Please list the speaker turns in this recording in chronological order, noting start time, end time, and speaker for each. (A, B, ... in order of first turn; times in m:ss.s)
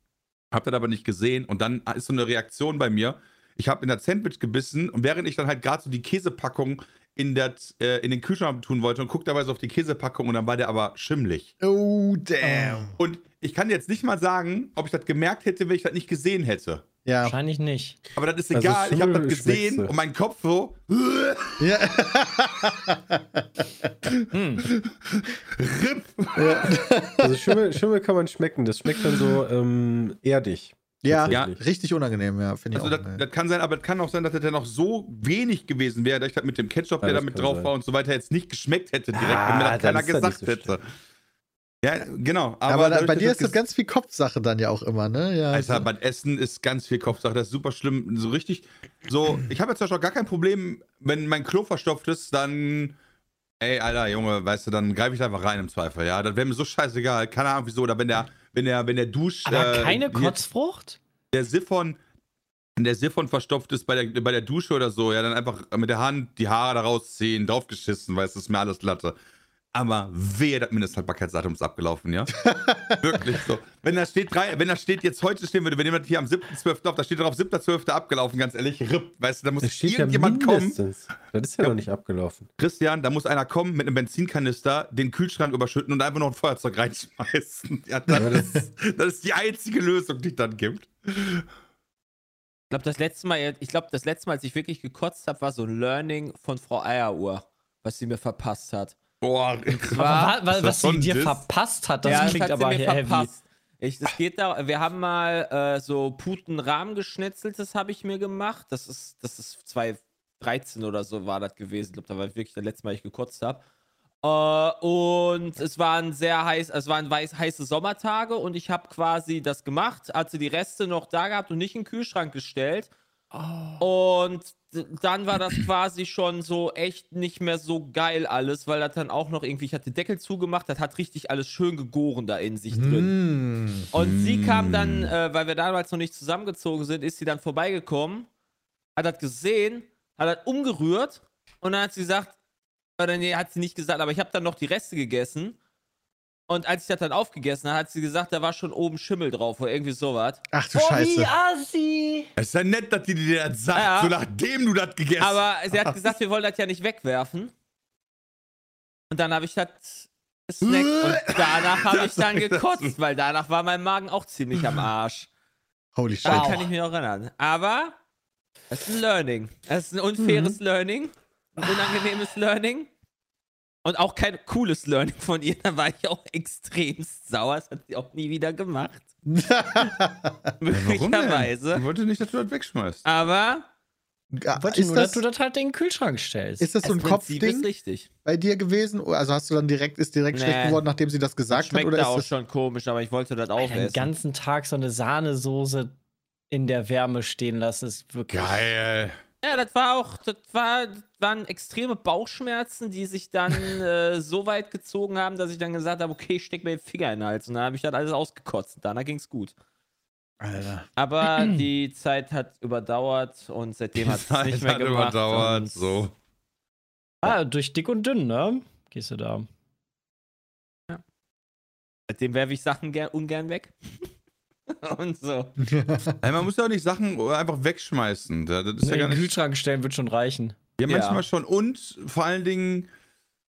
0:00.5-0:11.5 A
0:11.6-0:13.0 B
0:12.4-0:12.9 C
0:13.0-0:16.8 A
0:17.0-0:17.4 B
0:17.2-0:18.0 C
0:18.1-0:21.7 A
0:18.5-0:19.9 D
0:21.6-0:23.9 B
0:24.1-0:26.7 A
0:24.3-0:24.6 C
0:26.4-0:27.6 B
0:27.2-0:31.6 D
0:31.0-0:33.2 B
0:32.7-0:40.8 A
0:37.0-0:37.7 D
0:39.1-0:40.8 D
0:41.8-0:43.6 A
0:42.7-0:45.9 B
0:45.5-0:53.0 A
0:53.6-1:00.4 A
0:59.4-1:01.0 C
1:01.3-1:02.0 A
1:02.8-1:09.1 A
1:09.7-1:20.8 A
1:12.4-1:13.2 B
1:19.6-1:22.5 D
1:22.6-1:31.4 A
1:28.1-1:28.6 B
1:28.1-1:28.6 D
1:32.7-1:39.0 E
1:39.2-1:41.4 A
1:39.9-1:43.3 C
1:42.0-1:53.6 E
1:42.1-1:42.4 A
1:54.2-2:02.9 E
2:03.3-2:03.7 C
2:03.8-2:13.1 E
2:12.7-2:13.9 B
2:13.9-2:18.3 E
2:13.9-2:15.1 A
2:19.0-2:22.4 E
2:23.0-2:25.6 E
2:26.5-2:30.4 E
2:30.5-2:31.3 B
2:30.7-2:32.3 C
2:32.4-2:36.0 A
2:33.7-2:34.1 E
2:35.2-2:37.5 E
2:39.1-2:45.3 E
2:40.6-2:42.9 A
2:45.9-2:46.7 B
2:46.2-2:48.0 E
2:48.7-2:52.9 E
2:50.2-2:50.6 D
2:53.8-2:59.0 E
2:59.2-3:00.5 B
3:00.6-3:01.8 E
3:00.7-3:03.0 A
3:03.0-3:03.7 E
3:04.3-3:05.2 B
3:04.6-3:06.7 C
3:06.6-3:07.7 B
3:06.8-3:08.1 E
3:08.2-3:12.3 B
3:10.3-3:10.8 E
3:11.5-3:14.1 E
3:13.6-3:15.9 C
3:16.5-3:18.7 C
3:18.3-3:19.2 A
3:19.4-3:29.5 E
3:30.4-3:30.9 B
3:31.0-3:36.1 E
3:34.0-3:36.1 A
3:37.2-3:39.5 C
3:42.1-3:44.1 E
3:44.7-3:45.5 E
3:45.6-3:46.2 B
3:46.2-3:49.4 A
3:48.8-3:50.6 C
3:50.8-3:52.9 A
3:50.8-3:51.2 E